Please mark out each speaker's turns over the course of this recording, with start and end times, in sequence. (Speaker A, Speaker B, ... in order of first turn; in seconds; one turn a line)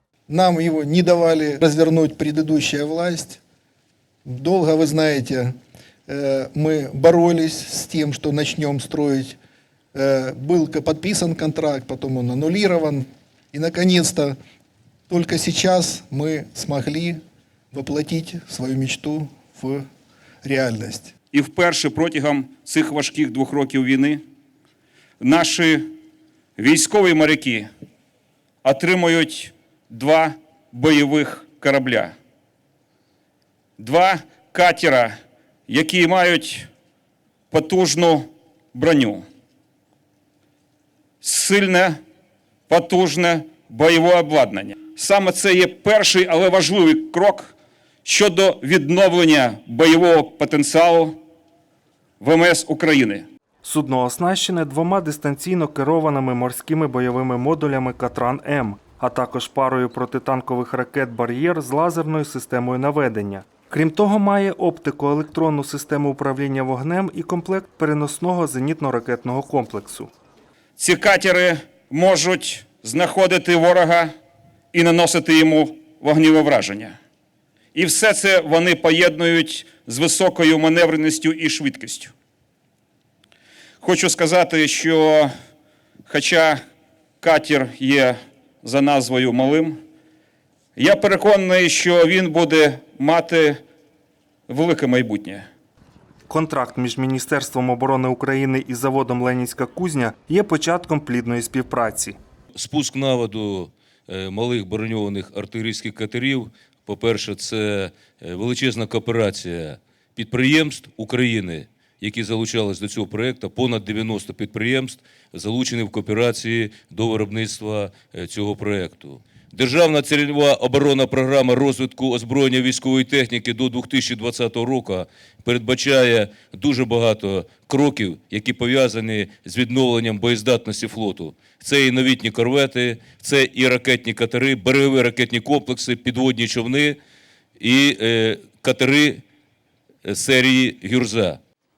Speaker A: 0.3-3.4
Speaker A: 4.2-5.5
Speaker A: 6.1-9.4
Speaker A: 9.9-14.4
Speaker A: 15.1-17.2
Speaker A: 17.7-19.8
Speaker A: 20.4-21.1
Speaker B: 21.3-24.2
Speaker B: 25.2-25.9
Speaker B: 26.6-27.7
Speaker B: 28.6-32.1
Speaker B: 33.8-35.1
Speaker B: 35.7-36.7
Speaker B: 37.5-39.2
Speaker B: 41.2-42.0
Speaker B: 42.7-47.5
Speaker B: 48.0-51.2
Speaker B: 52.2-53.2
Speaker C: 53.6-70.1
Speaker B: 70.8-74.1
Speaker B: 74.7-77.0
Speaker B: 77.7-82.1
Speaker B: 83.8-85.3
Speaker B: 86.1-86.6
Speaker B: 87.2-89.8
Speaker B: 90.8-93.6
Speaker B: 94.5-95.5
Speaker C: 96.3-102.2
Speaker D: 102.5-137.0
Speaker D: 137.6-139.2
Speaker D: 140.1-141.4